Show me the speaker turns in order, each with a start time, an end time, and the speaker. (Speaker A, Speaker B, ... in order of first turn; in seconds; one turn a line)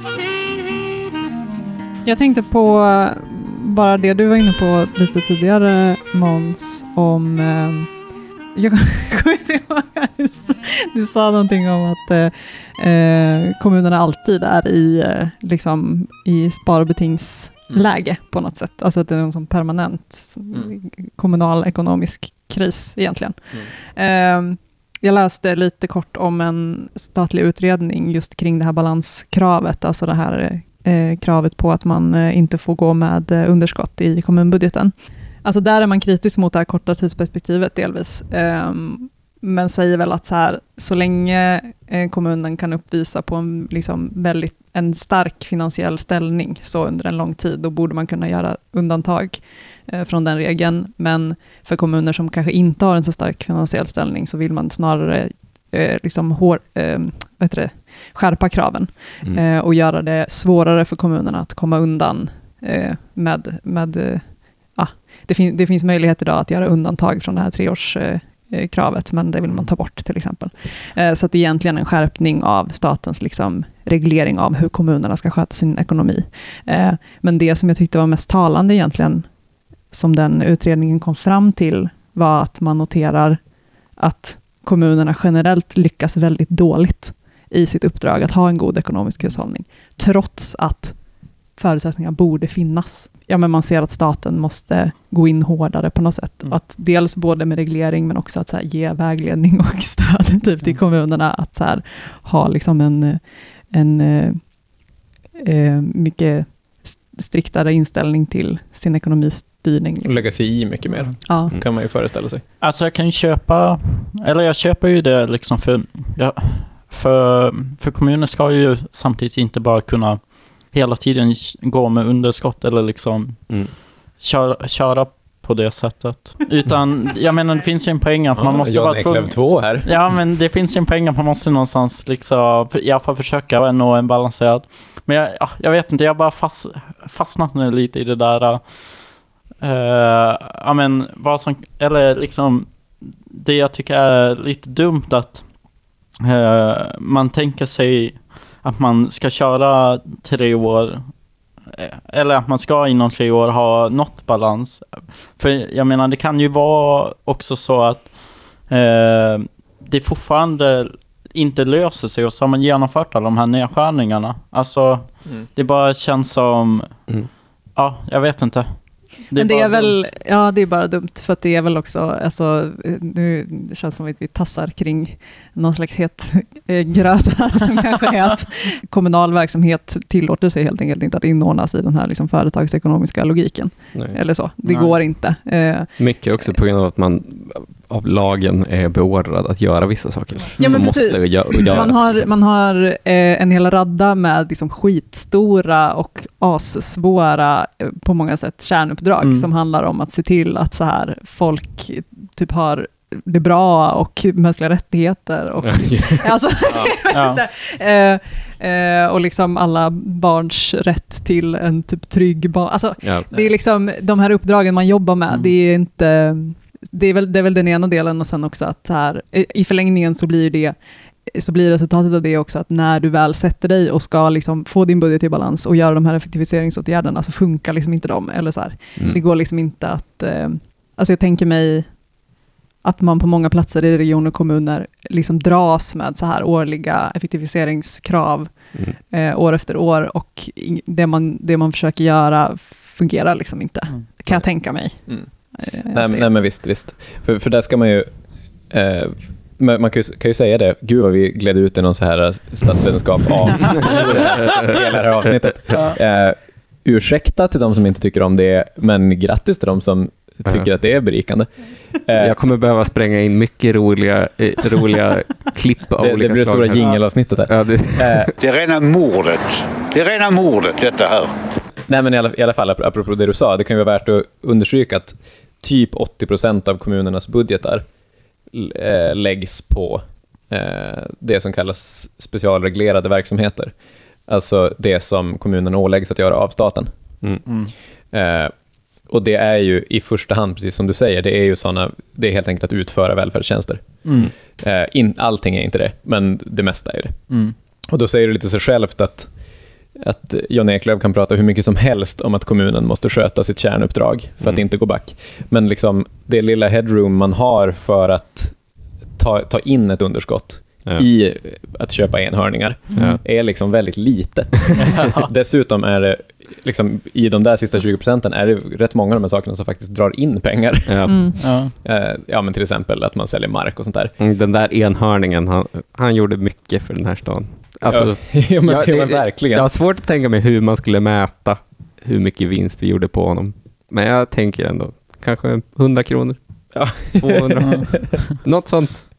Speaker A: 2.0-104.6
Speaker A: 105.4-110.4
Speaker B: 110.0-112.4
Speaker A: 111.2-111.5
Speaker C: 112.6-145.6
Speaker B: 128.4-129.9
Speaker C: 146.2-151.1
Speaker C: 151.7-167.1
Speaker C: 167.7-170.0
Speaker A: 169.3-186.6
Speaker D: 183.9-184.2
Speaker C: 184.7-185.0
Speaker D: 186.0-192.3
Speaker A: 190.6-232.0
Speaker C: 190.6-191.1
Speaker C: 199.2-199.5
Speaker D: 205.7-206.2
Speaker C: 207.1-207.4
Speaker D: 213.0-213.3
Speaker D: 229.0-229.2
Speaker A: 232.8-246.3
Speaker B: 245.1-248.1
Speaker B: 248.7-262.4
Speaker D: 253.9-254.7
Speaker D: 262.2-268.3
Speaker B: 266.0-268.3
Speaker E: 268.4-271.3
Speaker B: 271.9-277.8
Speaker B: 278.5-283.7
Speaker B: 284.3-286.9
Speaker C: 287.4-287.7
Speaker B: 288.1-288.5
Speaker B: 289.0-297.3
Speaker C: 294.0-294.3
Speaker C: 297.3-297.5
Speaker B: 297.9-299.3
Speaker B: 300.0-308.6
Speaker B: 309.2-324.1
Speaker D: 312.9-313.2
Speaker C: 314.8-315.3
Speaker D: 320.9-321.4
Speaker A: 321.1-321.4
Speaker C: 321.4-321.7
Speaker D: 324.2-339.1
Speaker B: 327.9-329.7
Speaker B: 336.7-337.9